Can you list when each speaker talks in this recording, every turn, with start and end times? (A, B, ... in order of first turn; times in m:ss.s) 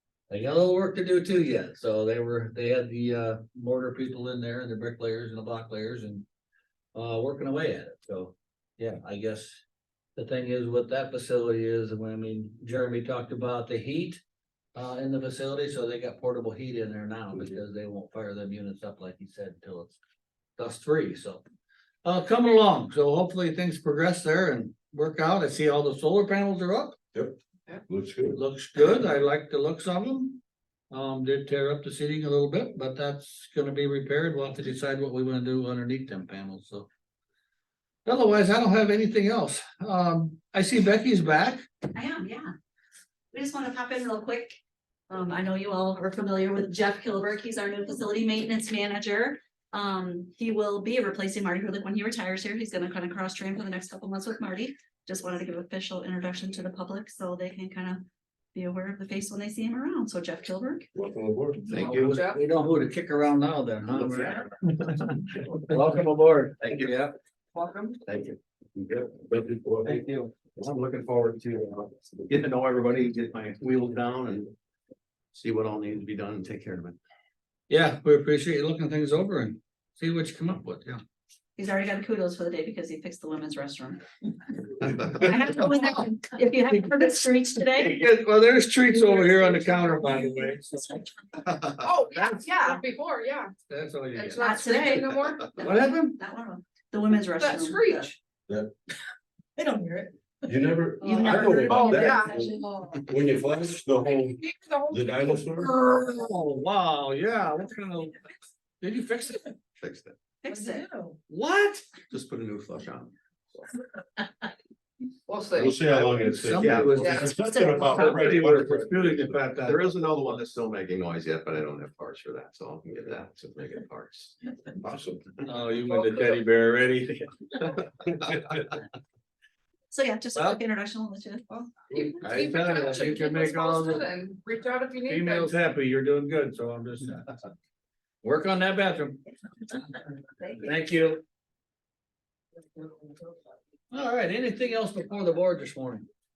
0:00.3-0:06.3 A
0:07.0-0:09.6 A
0:10.2-0:14.2 A
0:14.8-0:20.0 A
0:20.6-0:21.4 A
0:22.0-0:27.0 A
0:27.9-0:28.4 B
0:28.3-0:36.9 A
0:38.1-0:41.6 A
0:42.0-0:42.5 C
0:43.3-0:44.6 C
0:45.1-1:00.9 C
1:00.9-1:01.8 B
1:01.7-1:02.2 D
1:01.8-1:02.4 E
1:01.9-1:07.1 A
1:03.9-1:04.5 D
1:06.6-1:07.0 D
1:07.6-1:08.0 E
1:08.0-1:14.5 D
1:15.3-1:17.0 D
1:17.7-1:21.0 A
1:21.6-1:24.0 C
1:24.9-1:25.2 D
1:25.1-1:27.9 C
1:27.7-1:31.0 A
1:29.4-1:29.9 E
1:31.8-1:33.5 E
1:33.7-1:34.4 A
1:34.1-1:35.5 E
1:34.4-1:38.2 C
1:35.6-1:36.2 A
1:37.4-1:38.1 E
1:39.6-1:40.1 C
1:40.5-1:45.7 B
1:41.0-1:42.2 C
1:41.7-1:43.0 E
1:44.4-1:45.4 E
1:45.6-1:48.2 A
1:48.8-1:49.6 A
1:49.8-1:50.2 D
1:50.4-1:50.9 C
1:50.7-1:51.1 E
1:51.3-1:52.0 A
1:52.0-1:53.6 D
1:55.3-1:55.9 E
1:55.6-1:59.2 B
1:56.1-1:57.2 A
1:56.5-2:04.4 D
1:57.0-1:57.3 E
1:57.8-1:59.9 A
2:04.8-2:05.3 B
2:05.5-2:07.2 A
2:08.2-2:08.5 D
2:09.9-2:12.0 C
2:12.0-2:15.6 E
2:12.2-2:14.0 A
2:15.1-2:17.3 A
2:18.2-2:19.2 A
2:20.4-2:20.6 C
2:20.6-2:21.2 A
2:23.9-2:26.1 A